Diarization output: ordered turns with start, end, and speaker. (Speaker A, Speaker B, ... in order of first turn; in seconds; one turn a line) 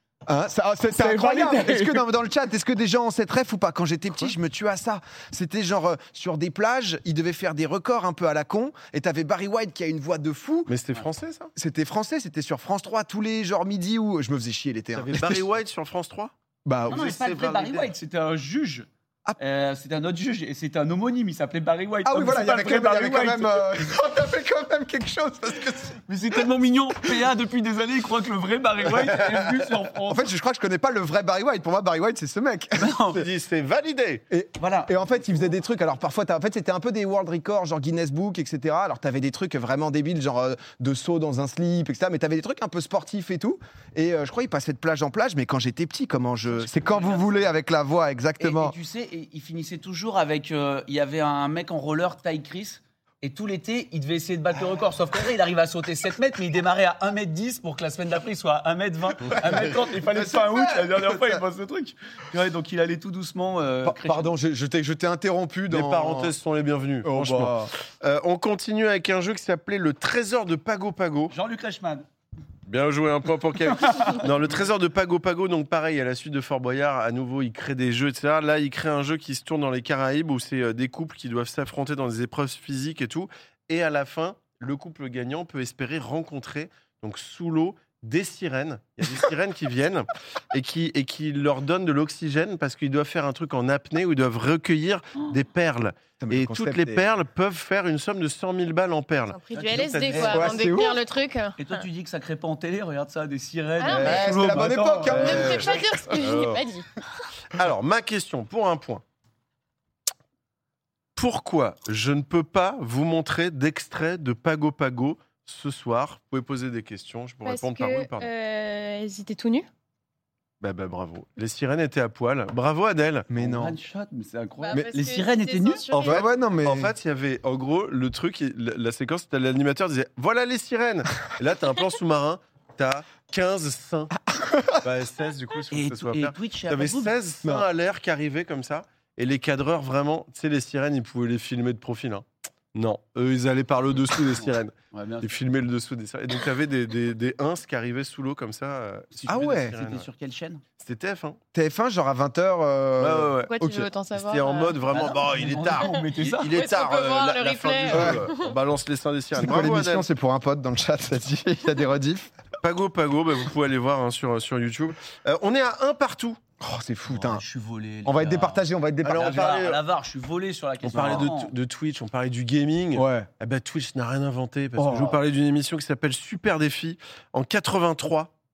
Speaker A: 0.3-10.7
Speaker B: 0.9-2.0
Speaker C: 10.7-11.5
Speaker A: 11.6-15.4
Speaker C: 14.9-16.3
Speaker A: 16.6-17.4
Speaker C: 16.9-17.9
Speaker B: 16.9-18.9
Speaker B: 19.4-23.7
Speaker A: 22.0-26.0
Speaker B: 26.1-30.3
Speaker A: 30.0-33.0
Speaker B: 32.8-33.2
Speaker C: 33.1-34.2
Speaker A: 34.3-48.8
Speaker B: 34.6-35.0
Speaker B: 46.5-47.5
Speaker B: 48.4-64.3
Speaker A: 59.5-61.4
Speaker A: 63.8-66.3
Speaker C: 65.7-71.3
Speaker A: 67.0-67.7
Speaker B: 71.3-72.1
Speaker C: 72.7-100.5
Speaker B: 73.7-74.3
Speaker A: 96.2-97.1
Speaker D: 99.3-101.5
Speaker B: 99.5-100.5
Speaker A: 100.1-101.0
Speaker B: 101.6-105.7
Speaker D: 103.8-104.3
Speaker A: 103.9-105.8
Speaker D: 105.2-107.0
Speaker C: 105.2-106.6
Speaker C: 107.5-109.0
Speaker C: 111.2-118.3
Speaker D: 117.4-119.7
Speaker C: 120.6-123.3
Speaker A: 123.3-123.8
Speaker B: 123.4-125.8
Speaker D: 124.6-126.2
Speaker C: 125.9-134.1
Speaker A: 126.0-126.9
Speaker A: 134.3-134.8
Speaker C: 134.8-150.1
Speaker B: 135.7-137.1
Speaker B: 144.4-145.4
Speaker B: 149.2-150.6
Speaker A: 149.3-149.7
Speaker C: 150.8-151.4
Speaker A: 151.5-153.9
Speaker C: 153.0-153.5
Speaker D: 153.5-154.8
Speaker C: 154.1-160.1
Speaker B: 154.9-156.6
Speaker D: 155.8-158.5
Speaker A: 157.9-158.2
Speaker A: 159.3-162.3
Speaker C: 162.6-166.4
Speaker A: 166.6-167.4
Speaker B: 167.1-171.5
Speaker A: 168.0-169.5
Speaker C: 169.1-169.8
Speaker C: 170.9-178.3
Speaker A: 170.9-171.3
Speaker A: 172.9-173.3
Speaker A: 174.8-175.2